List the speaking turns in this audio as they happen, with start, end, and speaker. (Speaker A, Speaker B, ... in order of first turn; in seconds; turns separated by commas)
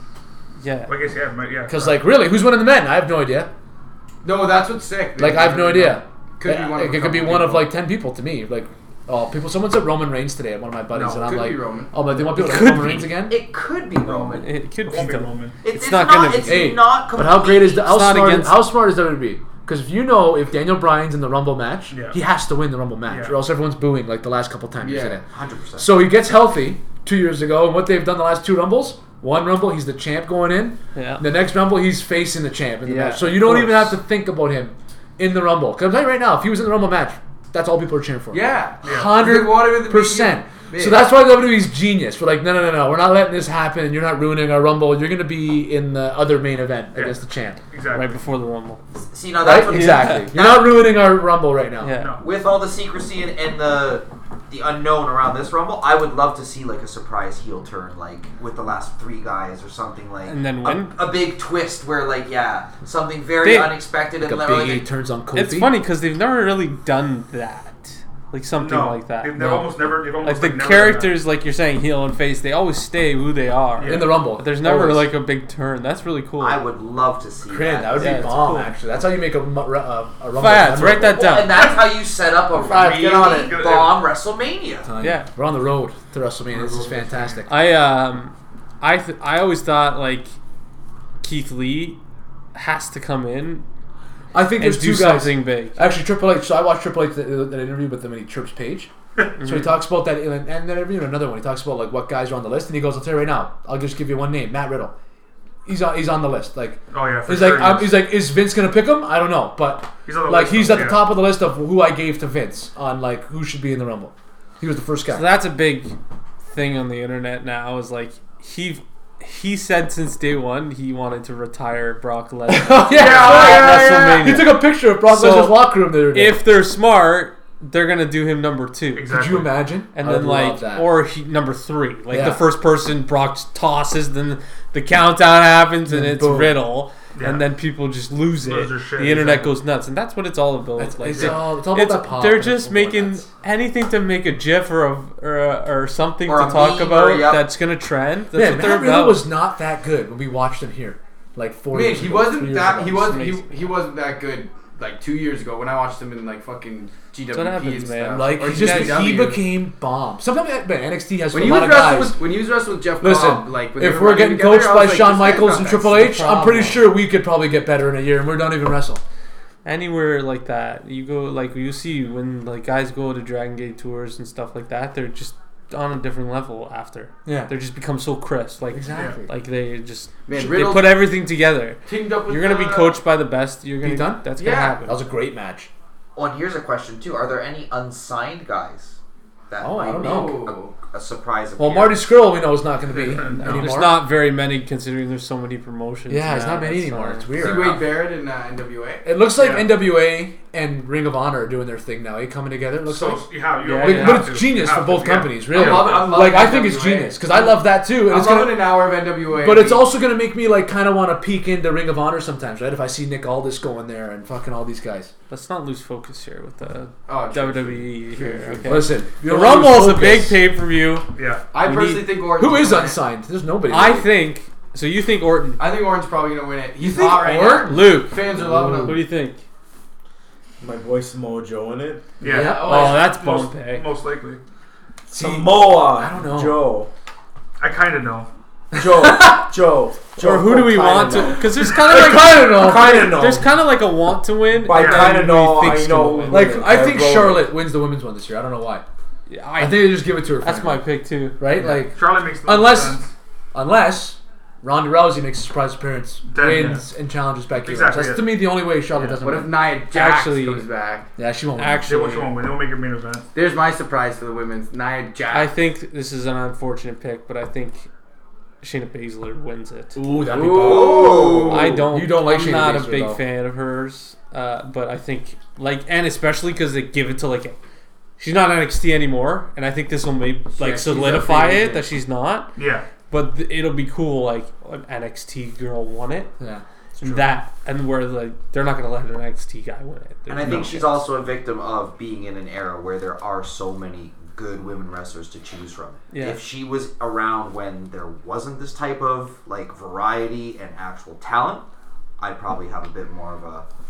Speaker A: 0.6-0.9, Speaker B: 0.8-2.0, Speaker C: 1.7-3.5, Speaker D: 4.2-7.7, Speaker C: 5.2-13.4, Speaker B: 10.9-11.2, Speaker D: 11.1-11.9, Speaker A: 12.3-13.2, Speaker E: 13.1-14.5, Speaker B: 14.0-15.6, Speaker A: 14.3-16.8, Speaker E: 15.6-17.9, Speaker C: 16.4-25.2, Speaker A: 17.8-18.7, Speaker B: 21.9-22.2, Speaker B: 23.1-23.4, Speaker D: 24.8-25.2, Speaker E: 25.3-25.9, Speaker C: 25.8-47.6, Speaker A: 30.9-31.2, Speaker A: 32.8-34.0, Speaker D: 38.3-41.1, Speaker B: 38.8-39.2, Speaker B: 46.9-48.1, Speaker A: 47.9-48.8, Speaker E: 49.1-50.9, Speaker C: 49.4-51.9, Speaker A: 49.7-50.3, Speaker A: 51.8-52.2, Speaker B: 51.9-52.2, Speaker E: 52.2-64.9, Speaker A: 60.2-61.0, Speaker A: 63.4-63.8, Speaker C: 64.2-65.7, Speaker A: 65.3-76.6, Speaker B: 68.6-71.2, Speaker B: 73.8-74.2, Speaker C: 73.8-75.1, Speaker E: 76.4-78.3, Speaker C: 77.5-81.2, Speaker A: 78.0-78.7, Speaker A: 80.3-81.7, Speaker E: 81.1-84.9, Speaker D: 82.7-83.5, Speaker B: 83.3-84.0, Speaker C: 84.8-87.5, Speaker A: 85.0-85.3, Speaker B: 86.5-87.4, Speaker A: 87.5-90.3, Speaker A: 91.2-92.0, Speaker A: 92.5-93.6, Speaker C: 94.3-104.9, Speaker A: 94.6-95.8, Speaker A: 99.4-99.8, Speaker C: 105.7-115.3, Speaker B: 106.9-108.1, Speaker B: 110.0-111.1, Speaker A: 115.1-116.0, Speaker A: 116.5-129.1, Speaker C: 122.5-126.5, Speaker B: 122.9-123.8, Speaker B: 128.9-129.6, Speaker C: 129.1-130.9, Speaker A: 129.9-149.3, Speaker C: 132.1-132.4, Speaker C: 135.8-136.6, Speaker B: 137.1-137.5, Speaker B: 138.4-139.6, Speaker C: 140.8-143.2, Speaker B: 141.1-141.4, Speaker E: 146.2-147.5, Speaker C: 148.3-153.2, Speaker D: 151.7-159.4, Speaker A: 153.0-153.6, Speaker A: 157.3-159.1, Speaker C: 158.1-162.2, Speaker D: 161.3-166.1, Speaker C: 163.0-169.0, Speaker A: 165.9-166.9, Speaker A: 169.6-185.0, Speaker C: 177.2-177.5, Speaker C: 178.7-179.3, Speaker B: 178.9-179.2, Speaker D: 180.3-181.0, Speaker D: 181.8-183.0, Speaker C: 183.8-184.3, Speaker D: 184.4-184.8, Speaker C: 184.8-185.7, Speaker E: 186.2-189.0, Speaker E: 189.5-192.1, Speaker C: 189.6-190.4, Speaker D: 189.8-190.8, Speaker C: 191.6-194.1, Speaker B: 192.9-193.8, Speaker A: 193.3-197.4, Speaker C: 196.1-197.8, Speaker D: 197.3-199.1, Speaker E: 197.5-197.8, Speaker C: 199.0-203.2, Speaker B: 199.4-199.7, Speaker B: 202.9-206.3, Speaker A: 203.6-204.3, Speaker C: 203.8-208.7, Speaker D: 205.5-209.9, Speaker C: 209.4-215.1, Speaker A: 215.3-221.1, Speaker D: 217.1-218.9, Speaker C: 218.6-220.4, Speaker B: 221.2-221.4, Speaker D: 221.5-223.0, Speaker A: 221.6-222.1, Speaker C: 222.4-224.1, Speaker A: 223.7-225.6, Speaker D: 225.6-229.0, Speaker C: 226.8-227.8, Speaker A: 227.6-229.4, Speaker C: 228.4-228.9, Speaker F: 230.6-232.0, Speaker B: 232.2-234.4, Speaker C: 232.2-232.9, Speaker D: 232.2-233.1, Speaker A: 232.5-233.9, Speaker C: 235.1-236.7, Speaker F: 235.1-236.9, Speaker B: 237.6-238.3, Speaker C: 238.7-239.5, Speaker F: 238.7-243.5, Speaker A: 240.2-246.7, Speaker C: 241.8-243.1, Speaker F: 244.5-247.5, Speaker B: 244.7-245.2, Speaker C: 246.3-248.8, Speaker A: 249.3-251.4, Speaker C: 249.6-250.8, Speaker C: 251.4-259.6, Speaker B: 251.6-253.1, Speaker B: 256.3-256.9, Speaker B: 257.6-259.2, Speaker D: 259.2-261.1, Speaker A: 259.9-260.6, Speaker C: 261.2-261.9, Speaker A: 261.6-262.4, Speaker B: 261.9-263.3, Speaker D: 263.3-265.5, Speaker A: 265.3-267.9, Speaker A: 268.6-270.0, Speaker C: 269.9-273.2, Speaker D: 270.2-271.9, Speaker E: 270.5-271.8, Speaker A: 271.5-277.6, Speaker A: 278.2-286.3, Speaker D: 280.5-281.8, Speaker B: 282.6-282.9, Speaker C: 286.4-287.3, Speaker A: 287.0-291.1, Speaker E: 290.3-301.6, Speaker B: 290.4-290.7, Speaker A: 296.1-296.4, Speaker E: 302.2-303.6